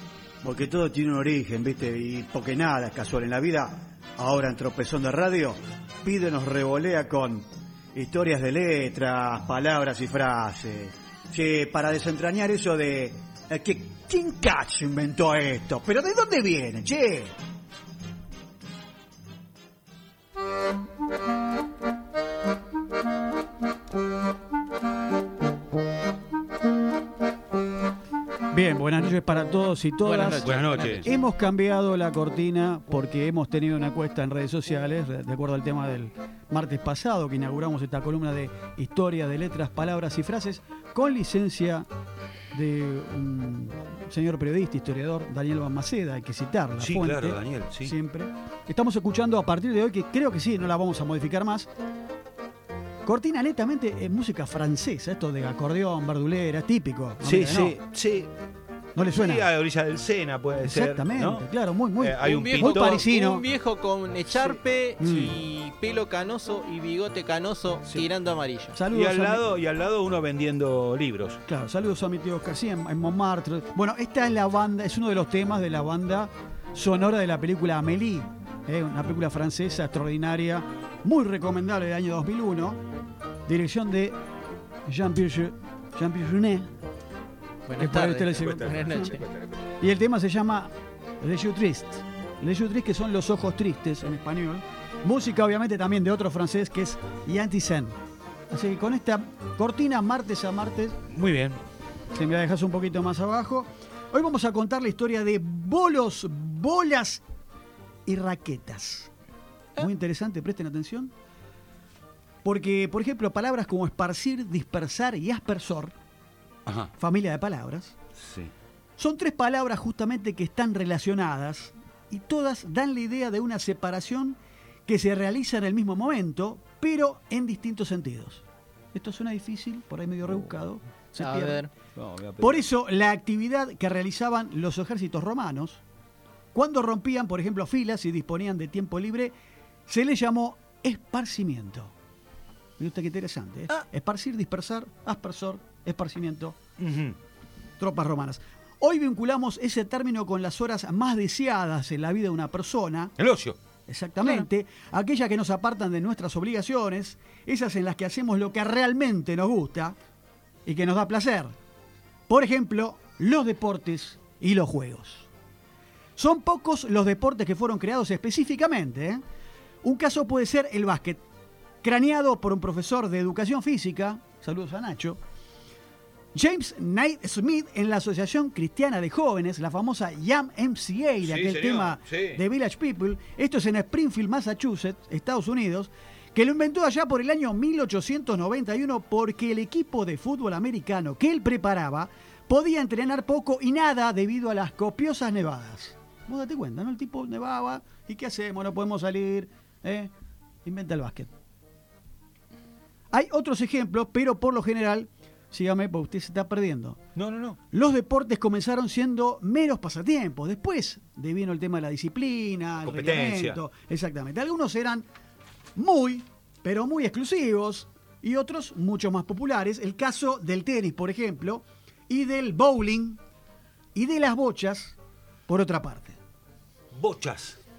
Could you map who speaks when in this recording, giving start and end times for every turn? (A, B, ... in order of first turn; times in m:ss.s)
0:00.4-0:17.3 A
0:28.5-0:41.9 A
0:30.0-0:31.1 B
0:30.4-0:31.1 C
0:42.5-0:51.7 A
0:46.8-0:47.9 C
0:53.0-0:57.8 A
0:57.2-0:58.3 C
0:59.0-0:59.5 A
0:59.0-1:01.4 C
1:00.6-1:03.4 A
1:02.0-1:03.0 C
1:02.2-1:08.8 B
1:04.4-1:05.3 A
1:08.7-1:09.5 A
1:08.9-1:11.4 C
1:11.4-1:22.8 A
1:23.5-1:24.2 A
1:24.9-1:26.7 A
1:27.7-1:29.2 B
1:27.8-1:29.2 A
1:28.4-1:29.5 C
1:29.8-1:37.9 A
1:38.5-1:41.0 A
1:41.1-1:41.6 C
1:42.1-1:47.2 A
1:48.0-1:49.1 A
1:49.8-1:51.1 A
1:52.4-1:55.9 A
1:56.6-1:56.9 C
1:57.0-1:58.0 A
1:58.2-1:58.5 C
1:59.0-2:11.6 A
2:11.2-2:11.7 B
2:12.0-2:12.6 C
2:12.4-2:15.8 A
2:16.5-2:19.3 A
2:19.9-2:21.9 A
2:22.8-2:26.6 A
2:26.8-2:27.2 C
2:27.8-2:33.1 A
2:33.2-2:33.6 C
2:33.9-2:40.0 A
2:40.6-2:41.5 A
2:42.3-2:45.3 A
2:46.2-2:49.2 A
2:49.8-2:51.2 A
2:51.8-2:55.2 A
2:56.3-3:20.1 A
3:01.2-3:02.4 C
3:20.6-3:21.3 A
3:23.1-3:27.0 A
3:27.2-3:27.6 C
3:27.7-3:35.0 A
3:32.8-3:33.6 C
3:35.8-3:43.2 A
3:43.9-3:45.0 A
3:45.5-3:46.2 A
3:46.9-3:47.6 C